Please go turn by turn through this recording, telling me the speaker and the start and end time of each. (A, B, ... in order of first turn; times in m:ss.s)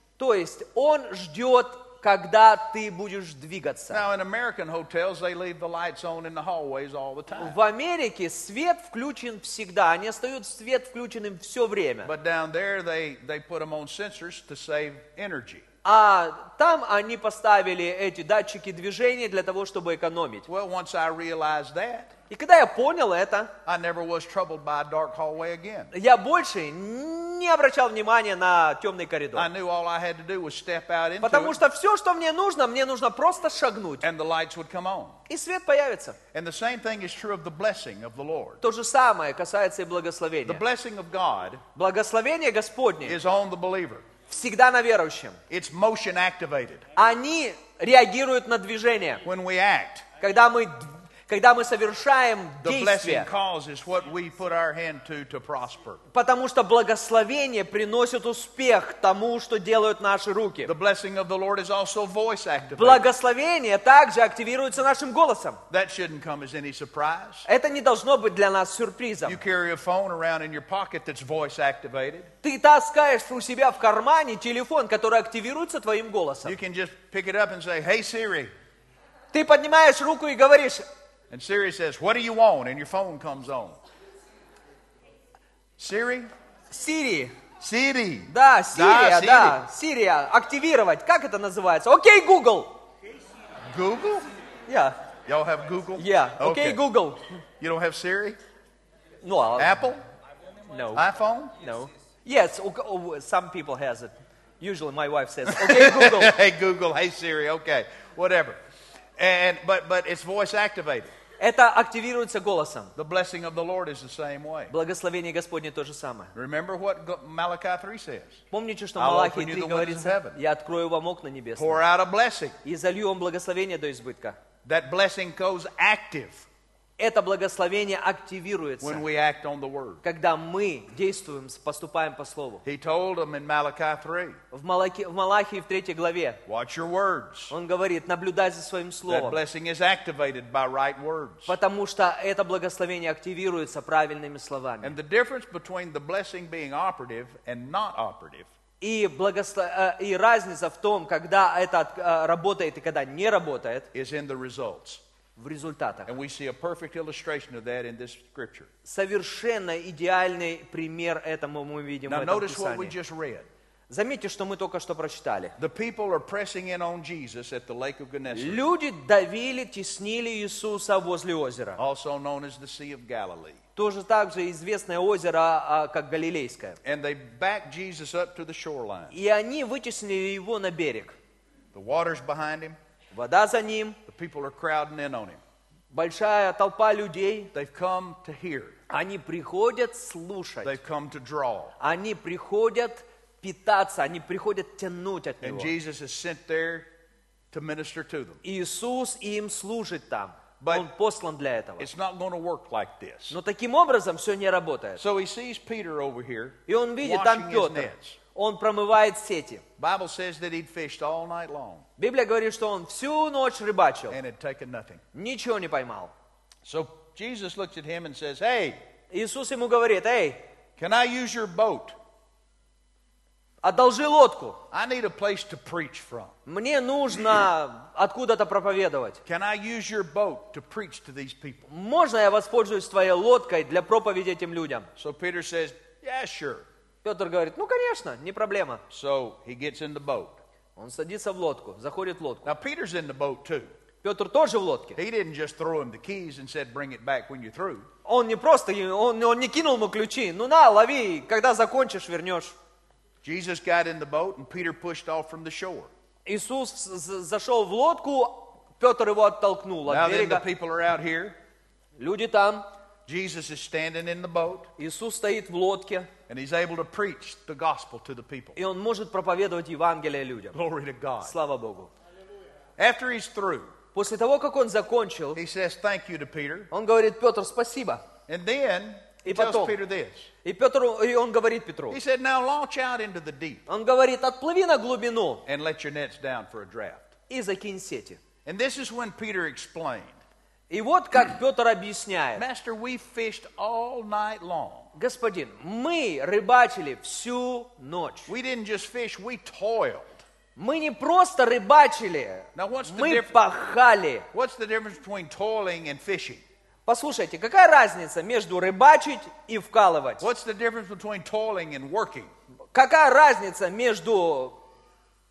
0:00.2-0:04.0 A
0:03.9-0:07.6 B
0:07.4-0:12.1 A
0:12.0-0:15.6 B
0:15.8-0:20.5 A
0:20.5-0:22.1 B
0:22.3-0:23.5 A
0:23.6-0:25.9 B
0:25.9-0:29.5 A
0:29.4-0:31.6 B
0:31.2-0:34.0 A
0:34.0-0:35.2 B
0:35.3-0:36.2 A
0:36.3-0:38.6 B
0:38.6-0:40.6 A
0:40.4-0:41.6 B
0:41.8-0:43.2 A
0:43.0-0:44.1 B
0:44.3-0:45.4 A
0:45.5-0:46.8 B
0:47.0-0:49.2 A
0:49.2-0:50.1 B
0:50.2-0:53.3 A
0:52.6-0:56.0 B
0:56.1-1:00.7 A
1:00.6-1:03.0 B
1:02.8-1:05.6 A
1:05.7-1:07.5 B
1:07.5-1:09.4 A
1:09.2-1:12.3 B
1:12.4-1:16.6 A
1:16.4-1:18.5 B
1:19.3-1:20.8 A
1:21.3-1:23.8 B
1:25.8-1:26.3 B
1:26.7-1:27.3 A
1:27.6-1:29.6 B
1:28.3-1:32.8 A
1:33.7-1:34.3 B
1:34.7-1:35.0 A
1:35.3-1:36.8 B
1:36.0-1:37.2 A
1:37.6-1:38.4 B
1:39.2-1:39.8 A
1:39.6-1:40.0 B
1:40.7-1:41.0 A
1:40.9-1:41.6 B
1:41.6-1:46.4 A
1:45.5-1:48.6 B
1:49.2-1:51.1 B
1:51.4-1:52.9 A
1:53.0-1:54.7 B
1:54.7-1:56.3 A
1:56.4-1:58.4 B
1:58.5-2:01.8 A
1:59.0-2:00.4 B
2:01.6-2:02.6 B
2:02.6-2:04.4 A
2:04.6-2:06.5 B
2:07.0-2:09.0 A
2:08.8-2:10.0 B
2:10.0-2:12.6 A
2:12.6-2:14.4 B
2:14.5-2:16.4 A
2:16.5-2:17.5 B
2:17.5-2:19.4 A
2:19.1-2:21.5 B
2:21.5-2:25.0 A
2:24.8-2:28.5 B
2:28.8-2:33.9 A
2:33.9-2:35.0 B
2:35.4-2:36.1 A
2:36.1-2:38.7 B
2:38.8-2:42.9 A
2:42.1-2:43.5 B
2:43.9-2:45.6 A
2:45.6-2:48.6 B
2:48.3-2:51.8 A
2:51.8-2:53.6 B
2:53.8-2:56.8 A
2:56.8-2:59.1 B
2:59.1-3:01.1 A
3:01.7-3:02.8 B
3:03.1-3:04.0 A
3:04.1-3:05.4 B
3:05.9-3:07.5 A
3:07.5-3:08.8 B
3:08.9-3:10.8 A
3:10.6-3:11.8 B
3:11.8-3:15.7 A
3:15.4-3:16.9 B
3:17.5-3:18.4 B
3:18.4-3:21.9 A
3:20.6-3:20.9 B
3:21.8-3:23.4 B
3:23.3-3:25.0 A
3:25.0-3:28.2 B
3:26.7-3:29.6 A
3:29.8-3:31.8 B
3:32.0-3:34.2 A
3:34.1-3:35.0 B
3:35.1-3:36.1 A
3:36.6-3:38.8 B
3:39.1-3:40.4 A
3:40.8-3:42.0 B
3:43.6-3:44.6 A
3:44.7-3:46.3 B
3:46.5-3:49.2 A
3:49.2-3:51.7 B
3:51.7-3:54.9 A
3:55.0-3:56.7 B
3:57.0-3:58.8 A
3:58.9-4:00.4 B
4:00.8-4:02.5 A
4:02.4-4:03.7 B
4:04.0-4:05.0 A
4:05.0-4:07.9 B
4:08.0-4:12.6 A
4:13.2-4:15.9 B
4:16.3-4:20.4 A
4:19.9-4:21.4 B
4:22.0-4:22.7 A
4:23.1-4:24.7 B
4:24.8-4:26.1 A
4:26.3-4:28.6 B
4:28.6-4:30.6 A
4:30.5-4:31.4 B
4:31.3-4:31.9 A
4:32.8-4:33.7 B
4:33.9-4:35.4 A
4:35.3-4:36.7 B
4:36.7-4:38.0 A
4:38.3-4:40.3 B
4:39.2-4:39.8 A
4:40.4-4:42.0 A
4:41.9-4:43.6 B
4:43.7-4:45.4 A
4:45.5-4:47.1 B
4:47.3-4:48.2 A
4:48.4-4:50.2 B
4:50.7-4:52.4 A
4:52.4-4:54.9 B
4:55.0-4:58.3 A
4:58.3-5:00.2 B
5:00.6-5:04.3 A
5:02.6-5:03.4 B
5:04.3-5:06.4 B
5:06.9-5:10.2 A
5:10.2-5:12.3 B
5:12.7-5:14.6 A